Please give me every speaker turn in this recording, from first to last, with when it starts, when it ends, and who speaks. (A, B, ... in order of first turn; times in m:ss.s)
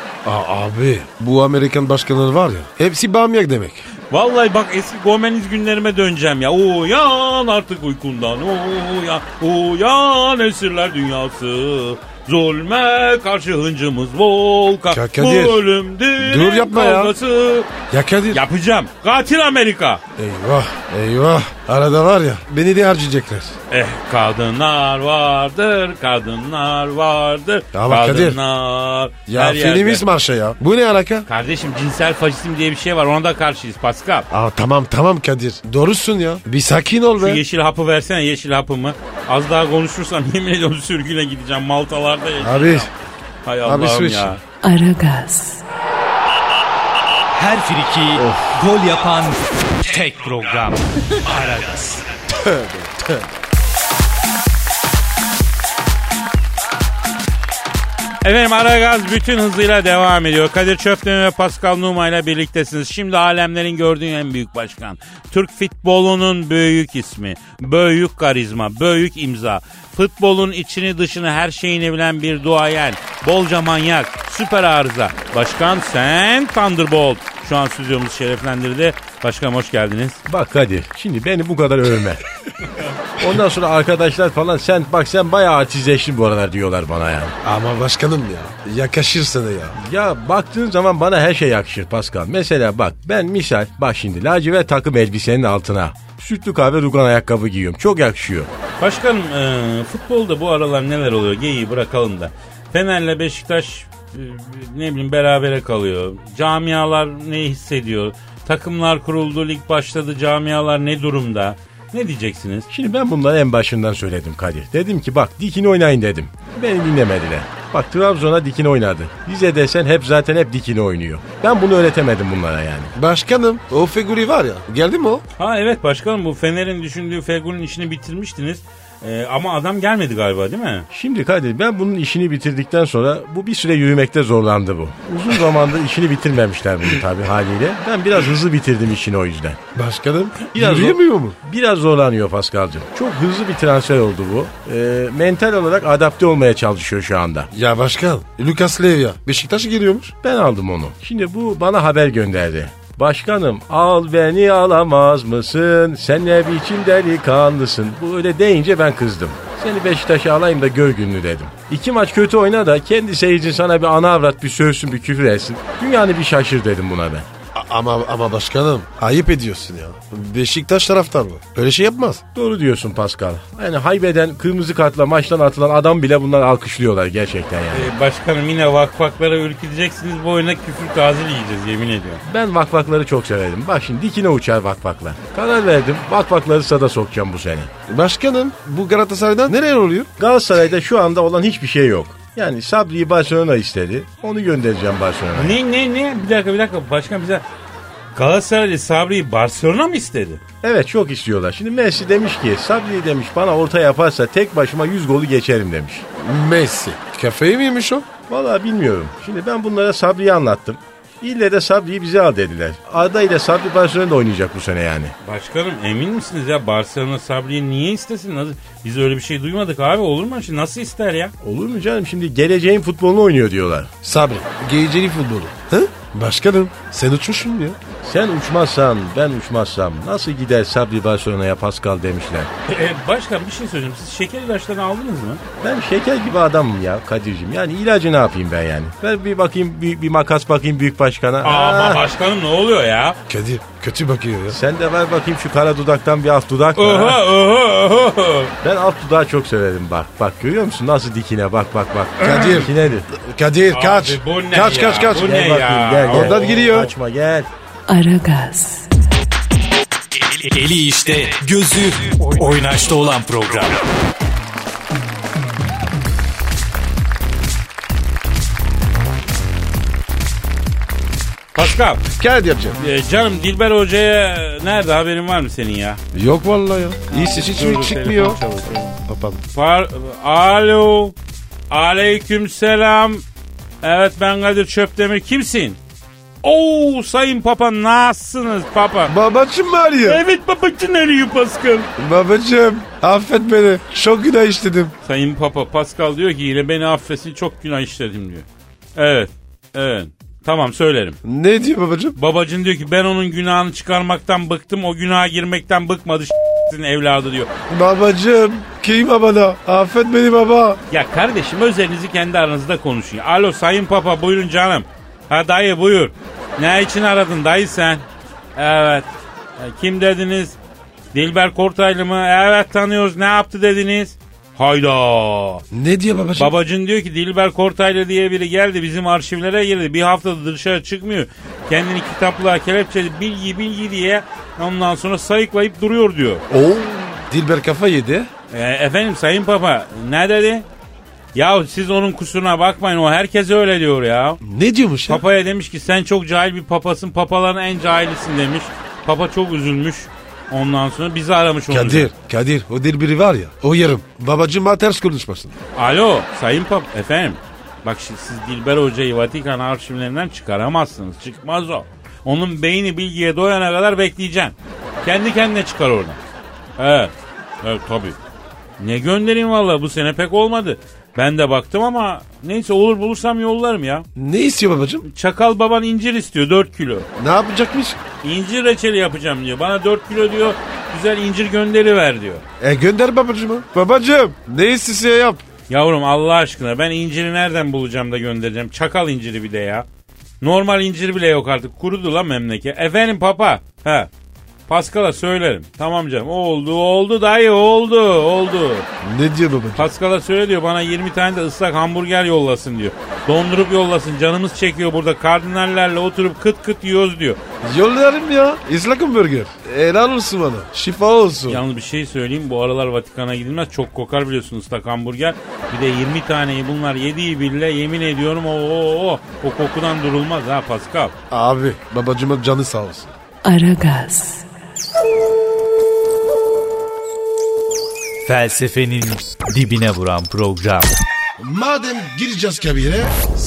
0:00.2-0:03.9 A
0:04.1-0:17.7 B
0:14.9-0:15.6 A
0:16.2-0:17.1 A
0:17.9-0:18.4 A
0:18.3-0:20.0 B
0:20.2-0:23.6 A
0:23.7-0:30.0 B
0:27.7-0:28.4 A
0:29.3-0:31.2 A
0:31.3-0:34.3 B
0:34.3-0:37.4 A
0:37.2-0:42.9 B
0:42.4-0:42.9 A
0:43.4-0:44.4 B
0:43.6-0:44.4 A
0:44.6-0:45.6 C
0:47.3-0:52.0 D
0:48.2-0:48.6 A
0:52.3-0:53.3 A
0:58.2-1:20.2 B
1:20.3-1:22.2 E
1:23.2-1:27.4 E
1:27.4-1:29.8 A
1:29.7-1:38.5 E
1:38.8-1:52.7 B
1:52.7-2:02.9 E
2:03.0-2:05.2 A
2:05.4-2:10.9 B
2:10.9-2:19.6 E
2:19.7-2:21.4 A
2:20.5-2:27.5 E
2:27.5-2:30.1 A
2:30.2-2:47.3 E
2:47.5-2:52.2 A
2:52.3-2:57.9 E
2:57.7-3:02.2 B
3:02.2-3:07.7 E
3:07.9-3:10.1 A
3:10.2-3:15.6 E
3:15.3-3:17.4 B
3:18.1-3:20.4 B
3:20.6-3:26.0 E
3:26.2-3:28.1 A
3:28.3-3:35.1 E
3:35.2-3:41.3 B
3:41.4-3:43.9 E
3:44.0-3:47.8 A
3:48.0-3:52.5 E
3:52.7-3:55.4 B
3:55.6-4:02.0 E
4:01.4-4:03.2 B
4:03.3-4:04.6 A
4:04.5-4:07.2 E
4:06.8-4:08.5 B
4:08.6-4:13.1 E
4:12.2-4:15.2 A
4:13.7-4:16.7 B
4:15.1-4:17.5 E
4:16.1-4:16.9 A
4:17.9-4:18.9 C
4:20.2-4:23.8 D
4:31.5-4:32.0 B
4:32.1-4:32.8 A
4:32.8-4:36.0 B
4:36.1-4:39.4 A
4:37.1-4:39.0 B
4:39.5-4:41.1 B
4:41.7-4:43.2 B
4:43.8-4:45.8 B
4:46.4-4:49.1 B
4:49.1-4:50.2 A
4:50.0-4:51.9 B
4:52.0-4:54.9 A
4:55.0-5:01.2 B
5:01.2-5:02.2 A
5:02.2-5:07.5 B
5:07.7-5:10.8 A
5:10.9-5:20.6 B
5:21.1-5:25.6 B
5:25.7-5:26.5 A
5:26.3-5:36.4 B
5:36.5-5:38.3 A
5:38.5-5:40.6 B
5:41.3-5:44.4 B
5:44.4-5:45.2 A
5:45.1-5:52.1 B
5:51.7-5:55.6 A
5:55.8-6:06.2 B
6:06.8-6:08.2 B
6:08.8-6:14.1 B
6:14.2-6:15.0 A
6:15.0-6:17.1 B
6:17.2-6:18.0 A
6:18.2-6:22.4 B
6:22.6-6:25.4 A
6:25.7-6:29.8 B
6:30.4-6:34.1 B
6:34.7-6:38.9 B
6:39.0-6:39.9 A
6:39.8-6:47.4 B
6:47.6-6:51.6 A
6:51.5-7:01.1 B
7:01.3-7:03.1 A
7:03.4-7:04.5 C
7:08.2-7:10.9 D
7:11.4-7:13.1 A